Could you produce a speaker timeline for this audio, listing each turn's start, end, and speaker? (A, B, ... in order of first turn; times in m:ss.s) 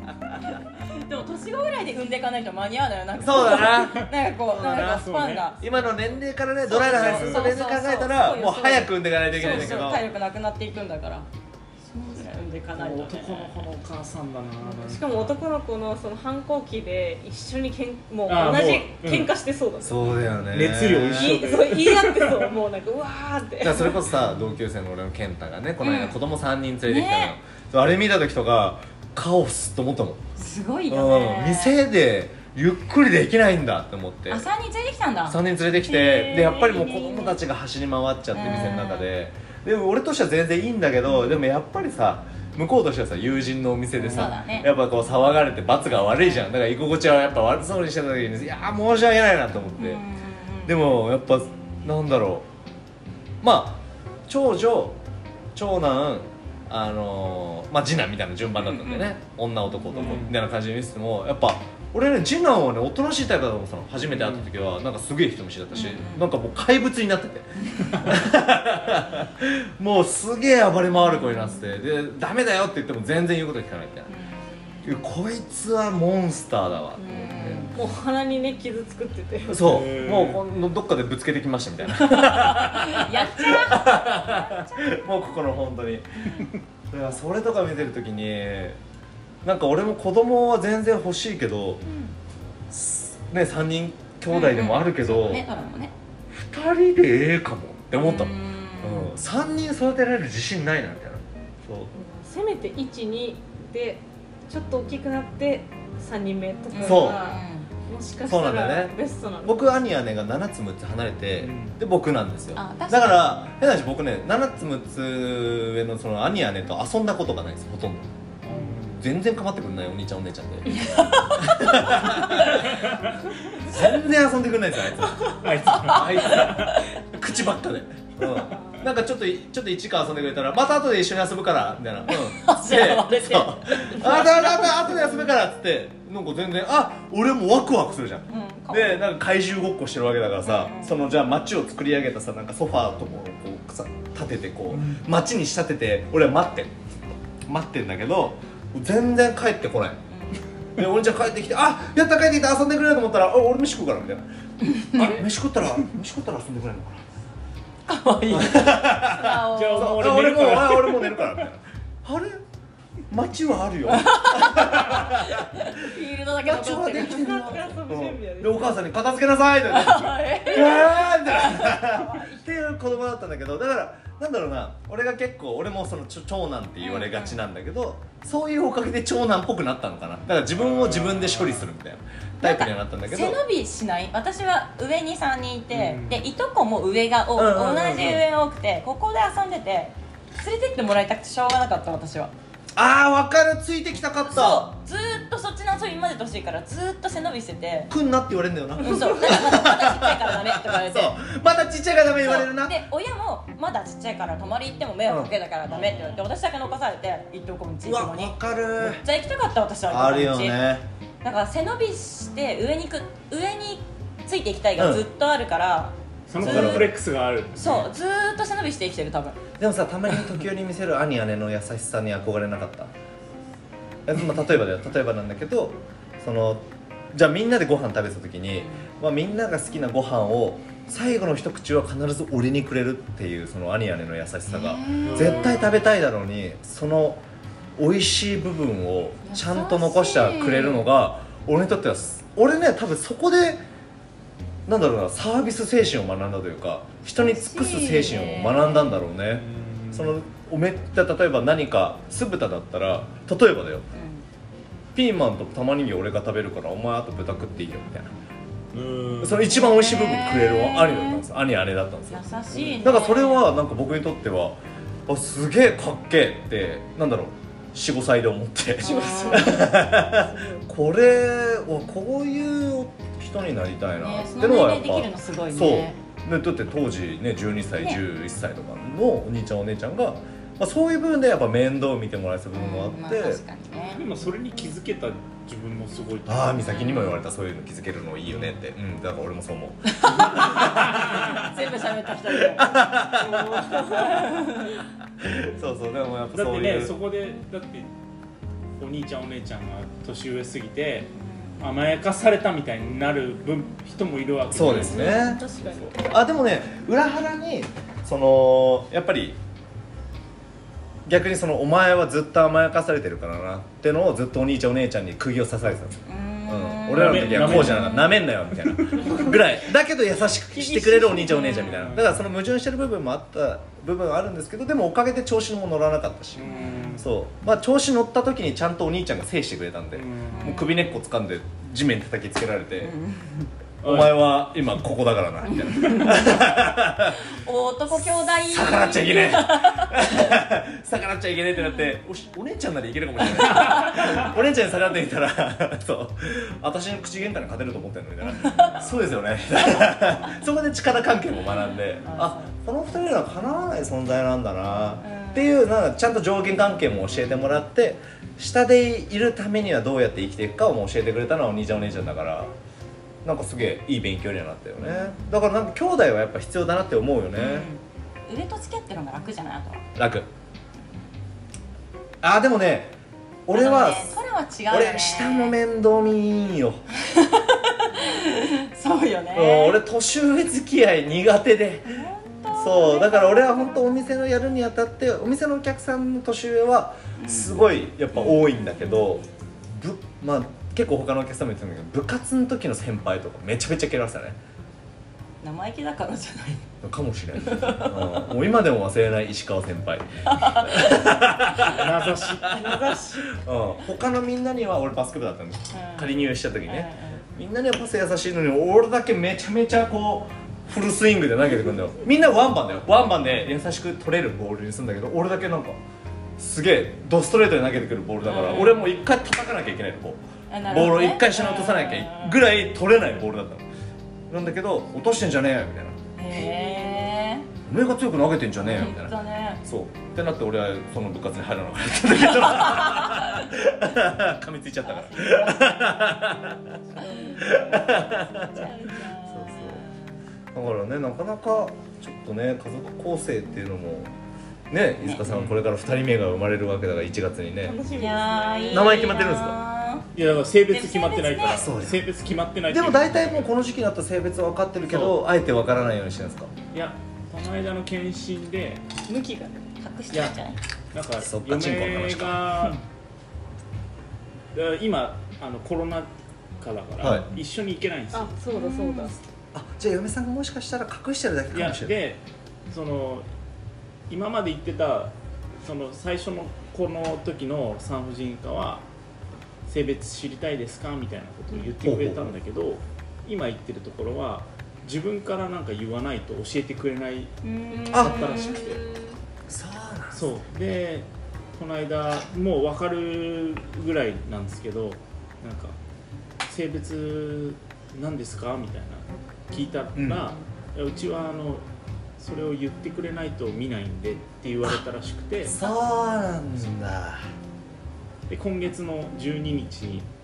0:01.0-0:05.6 A
0:03.2-0:05.0 B
0:03.6-0:05.5 C
0:05.6-0:10.0 B
0:05.6-0:05.9 D
0:06.6-0:11.3 A
0:06.8-0:07.5 C
0:09.4-0:09.8 C
0:11.9-0:13.6 A
0:12.7-0:15.4 C
0:14.7-0:20.3 D
0:18.3-0:19.3 C
0:19.8-0:21.5 B
0:20.5-0:22.5 C
0:21.1-0:24.0 D
0:23.6-0:30.3 B
0:25.8-0:26.2 A
0:26.8-0:27.3 A
0:30.4-0:31.8 A
0:30.9-0:34.4 B
0:34.3-0:37.4 A
0:35.3-0:50.0 B
0:38.3-0:39.1 A
0:44.0-0:44.3 C
0:44.0-0:44.7 A
0:49.8-0:50.9 A
0:50.6-0:52.5 B
0:53.4-0:55.0 B
0:55.5-1:14.1 B
0:58.6-0:59.1 A
0:59.9-1:00.4 C
1:04.1-1:04.5 C
1:05.7-1:06.3 A
1:11.1-1:11.6 A
1:14.1-1:14.9 A
1:14.8-1:17.6 B
1:17.0-1:17.8 A
1:17.7-1:19.7 D
1:19.5-1:26.4 B
1:19.6-1:20.4 C
1:21.9-1:24.8 A
1:26.9-1:28.8 B
1:29.4-1:31.8 B
1:31.8-1:32.1 A
1:32.7-1:35.4 B
1:34.3-1:35.9 A
1:36.3-1:41.9 B
1:38.0-1:39.2 A
1:41.9-1:49.8 D
1:46.7-1:47.7 A
1:46.8-1:47.2 B
1:48.2-1:58.1 B
1:51.4-1:51.8 C
1:52.5-1:53.3 A
1:58.4-1:59.1 C
1:59.0-2:02.7 B
2:00.8-2:02.6 A
2:02.7-2:03.2 C
2:03.6-2:30.0 B
2:05.4-2:06.8 C
2:05.8-2:06.8 A
2:08.4-2:08.8 D
2:12.1-2:15.1 A
2:18.3-2:19.1 A
2:20.4-2:21.0 A
2:24.7-2:25.0 C
2:30.1-2:30.4 A
2:30.8-2:34.2 B
2:34.7-2:35.2 A
2:34.9-2:37.0 B
2:35.0-2:35.2 C
2:37.9-2:40.2 A
2:38.3-2:42.4 B
2:39.5-2:41.3 C
2:43.1-3:03.4 B
2:43.9-2:47.6 A
2:46.9-2:48.9 D
2:49.6-2:52.4 A
2:56.8-2:57.4 A
3:00.5-3:01.7 C
3:02.4-3:12.3 A
3:05.7-3:06.2 C
3:07.4-3:08.2 B
3:12.8-3:14.7 B
3:14.2-3:17.9 A
3:17.9-3:22.8 B
3:18.8-3:21.2 A
3:22.2-3:30.6 A
3:25.1-3:25.3 B
3:25.7-3:26.2 C
3:27.8-3:29.0 B
3:29.9-3:30.8 B
3:31.2-3:36.9 A
3:34.8-3:35.0 B
3:36.3-3:37.9 C
3:36.4-3:36.9 B
3:37.6-3:39.4 A
3:39.6-3:42.9 B
3:44.0-3:57.2 B
3:48.5-3:48.9 A
3:54.5-3:55.5 A
3:55.0-3:55.8 C
3:57.8-4:03.6 B
3:59.2-4:00.9 A
4:04.7-4:13.8 B
4:07.2-4:09.0 A
4:09.2-4:10.2 C
4:13.9-4:14.2 A
4:14.9-4:18.1 B
4:18.7-4:19.6 C
4:19.2-4:22.2 B
4:19.5-4:21.2 A
4:22.1-4:23.5 A
4:22.5-4:22.9 C
4:22.8-4:43.4 B
4:28.8-4:30.6 D
4:28.8-4:29.6 A
4:34.0-4:36.0 A
4:42.5-4:44.0 A
4:43.9-4:46.7 C
4:46.3-4:51.5 B
4:46.6-4:47.2 A
4:48.2-4:48.6 C
4:50.0-4:52.7 A
4:50.4-4:51.2 C
4:52.3-4:53.5 B
4:53.1-4:54.5 D
4:53.7-4:54.8 A
4:55.2-4:56.9 B
4:56.3-4:57.9 C
4:58.8-5:05.2 C
5:04.5-5:09.4 B
5:04.6-5:06.2 D
5:11.0-5:32.9 B
5:16.0-5:18.2 A
5:16.9-5:17.9 C
5:18.6-5:19.2 C
5:20.8-5:22.2 C
5:21.1-5:22.0 A
5:26.4-5:27.1 C
5:26.4-5:27.0 A
5:29.9-5:30.6 C
5:30.3-5:30.8 A
5:32.8-5:33.5 A
5:33.8-5:34.4 C
5:33.8-5:37.3 B
5:35.7-5:36.3 A
5:37.1-5:40.3 A
5:37.9-6:02.5 B
5:43.5-5:44.1 A
5:48.3-5:48.8 A
5:52.0-5:52.5 A
5:55.0-5:55.6 A
5:57.1-5:57.6 C
6:03.2-6:07.7 B
6:07.3-6:09.8 A
6:10.0-6:10.3 B
6:12.2-6:12.9 B
6:13.5-6:16.8 B
6:13.5-6:15.6 A
6:16.9-6:19.8 A
6:19.3-6:34.4 B
6:21.9-6:23.9 A
6:27.2-6:29.2 A
6:35.4-6:36.6 A
6:36.8-6:55.8 B
6:37.4-6:38.1 A
6:40.3-6:41.1 A
6:41.6-6:42.7 C
6:42.4-6:43.4 D
6:45.7-6:47.2 A
6:56.4-7:03.6 B
6:58.2-6:58.8 A
7:00.5-7:02.4 A
7:04.3-7:06.0 B
7:06.2-7:07.5 A
7:06.3-7:07.1 D
7:07.6-7:19.8 B
7:08.6-7:09.6 A
7:12.2-7:13.6 A
7:14.8-7:16.2 A
7:17.0-7:20.1 A
7:20.5-7:24.1 B
7:24.7-7:27.8 B
7:25.2-7:25.6 C
7:27.6-7:29.1 D
7:28.0-7:30.0 A
7:28.7-7:29.6 B
7:30.1-7:33.5 C
7:30.7-7:31.7 A
7:31.6-7:32.0 B
7:32.7-7:36.5 B
7:34.9-7:35.2 C
7:36.7-7:38.8 C
7:39.1-7:39.7 D
7:39.8-7:40.6 A
7:40.1-7:40.4 C
7:40.9-7:42.8 C
7:41.2-7:42.5 B
7:44.5-7:48.3 C
7:47.0-7:47.3 B
7:48.1-7:49.2 D
7:48.5-7:49.1 A
7:49.5-7:51.9 B
7:51.5-7:53.3 C
7:54.1-7:58.8 C
7:59.7-8:07.4 C
8:01.8-8:02.3 B
8:07.4-8:08.8 A
8:07.7-8:09.2 D
8:07.9-8:08.2 B
8:07.9-8:08.8 C
8:09.5-8:10.3 B
8:10.1-8:15.7 C
8:16.5-8:21.6 C
8:20.0-8:20.2 B
8:22.2-8:25.6 C
8:25.4-8:27.3 B
8:28.3-8:30.1 C